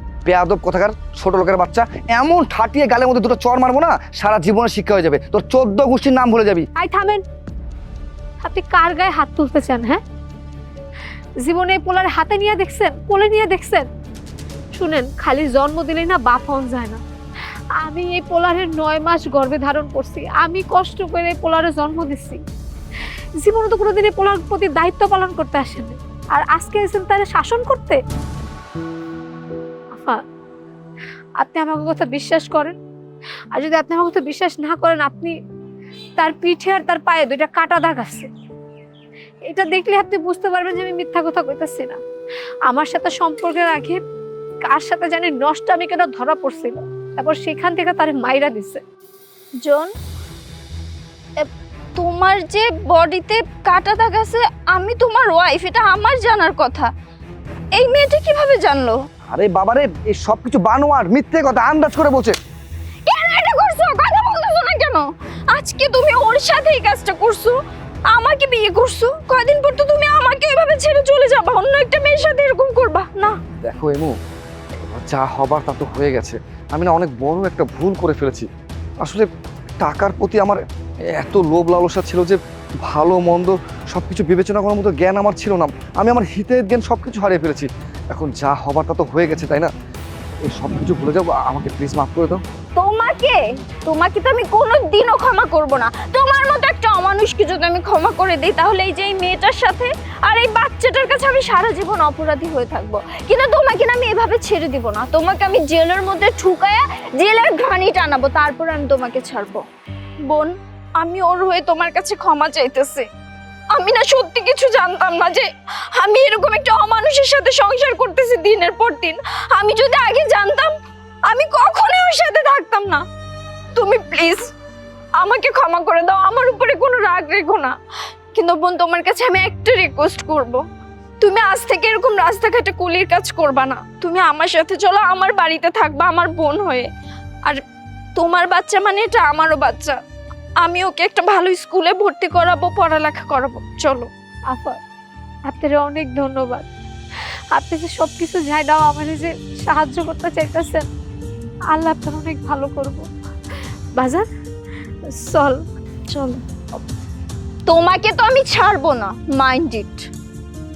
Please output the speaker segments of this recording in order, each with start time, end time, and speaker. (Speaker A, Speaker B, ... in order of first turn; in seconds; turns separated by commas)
Speaker A: 0.2-6.7, Speaker B: 6.8-7.2, Speaker B: 8.4-10.0, Speaker B: 11.4-13.9, Speaker B: 14.7-17.0, Speaker B: 17.8-22.4, Speaker B: 23.4-28.0, Speaker B: 29.9-30.2, Speaker B: 31.4-32.8, Speaker B: 33.5-35.4, Speaker B: 36.2-38.3, Speaker B: 39.4-42.0, Speaker B: 42.7-44.0, Speaker B: 44.7-48.8, Speaker C: 49.6-49.9, Speaker C: 51.4-56.9, Speaker C: 57.8-59.0, Speaker A: 59.3-62.4, Speaker C: 63.1-67.6, Speaker C: 68.1-73.4, Speaker A: 73.6-74.1, Speaker A: 74.9-78.5, Speaker A: 79.0-79.3, Speaker A: 79.8-80.6, Speaker A: 81.1-89.7, Speaker A: 90.5-92.4, Speaker C: 92.8-109.6, Speaker C: 110.3-113.0, Speaker C: 113.7-120.7, Speaker C: 121.3-123.0, Speaker C: 123.8-124.5, Speaker C: 125.2-127.8, Speaker C: 128.3-130.6, Speaker C: 131.2-136.9, Speaker C: 138.2-140.0, Speaker C: 140.6-144.1, Speaker B: 144.5-144.8, Speaker B: 145.5-146.7, Speaker B: 147.5-150.9, Speaker B: 151.7-153.1, Speaker B: 154.0-154.3, Speaker B: 155.1-155.6, Speaker C: 156.1-156.4, Speaker C: 157.7-160.1